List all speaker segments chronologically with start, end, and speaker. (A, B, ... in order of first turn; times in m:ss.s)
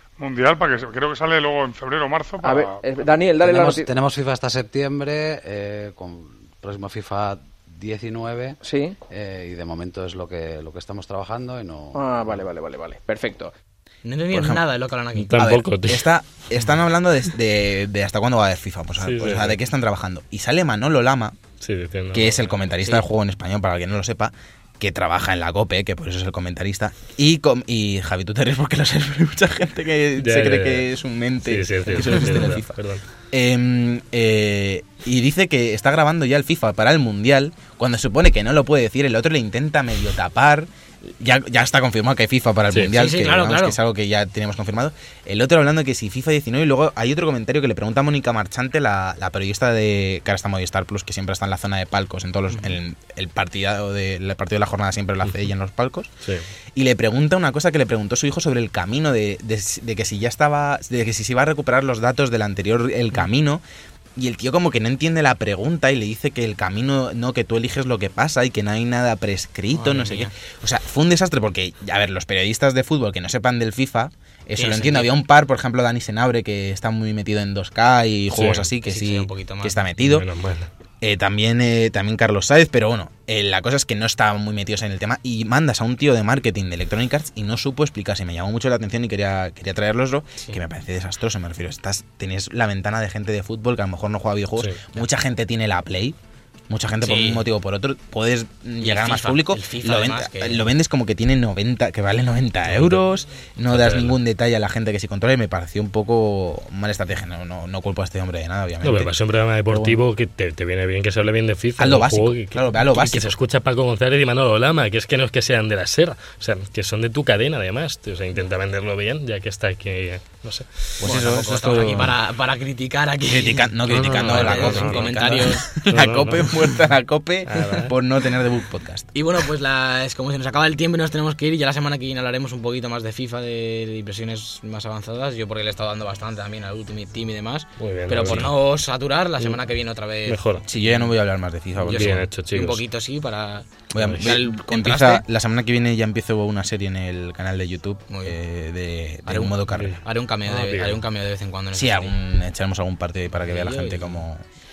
0:00.2-0:02.8 A
0:02.4-0:03.9 B
0:03.4-0:12.4 C
0:08.6-0:09.0 B
0:11.9-0:13.5 B
0:14.0-0:15.4 D
0:14.3-0:14.6 E
0:15.2-0:16.0 F
0:15.4-0:21.4 E
0:19.0-0:19.6 F
0:21.6-0:23.0 F
0:22.1-0:32.8 E
0:30.2-0:30.9 F
0:31.4-0:33.0 F
0:33.3-0:56.1 E
0:42.9-0:43.8 D
0:52.5-0:52.8 D
0:56.7-1:03.6 E
1:04.2-1:20.3 E
1:09.7-1:10.3 D
1:14.5-1:15.1 D
1:18.3-1:18.7 F
1:18.8-1:19.8 D
1:20.0-1:20.7 F
1:21.0-1:36.2 E
1:30.4-1:30.6 D
1:36.7-1:49.1 E
1:37.0-1:37.5 D
1:38.8-1:40.7 D
1:42.7-1:43.0 F
1:43.7-1:44.2 F
1:48.8-2:01.1 F
1:49.7-1:50.0 E
1:51.8-1:53.3 E
2:01.0-2:02.1 E
2:01.0-2:05.6 D
2:03.3-2:09.1 E
2:03.9-2:05.2 F
2:05.7-2:06.6 F
2:07.5-2:07.9 F
2:09.1-2:21.0 D
2:17.8-2:18.5 F
2:18.2-2:18.5 E
2:20.2-2:20.6 F
2:20.7-2:22.3 E
2:21.8-2:25.2 D
2:21.8-2:22.8 F
2:23.9-2:30.0 E
2:24.0-2:24.4 F
2:28.1-2:28.4 D
2:29.2-2:32.1 D
2:29.7-2:31.0 F
2:31.7-2:34.4 E
2:33.4-2:34.2 D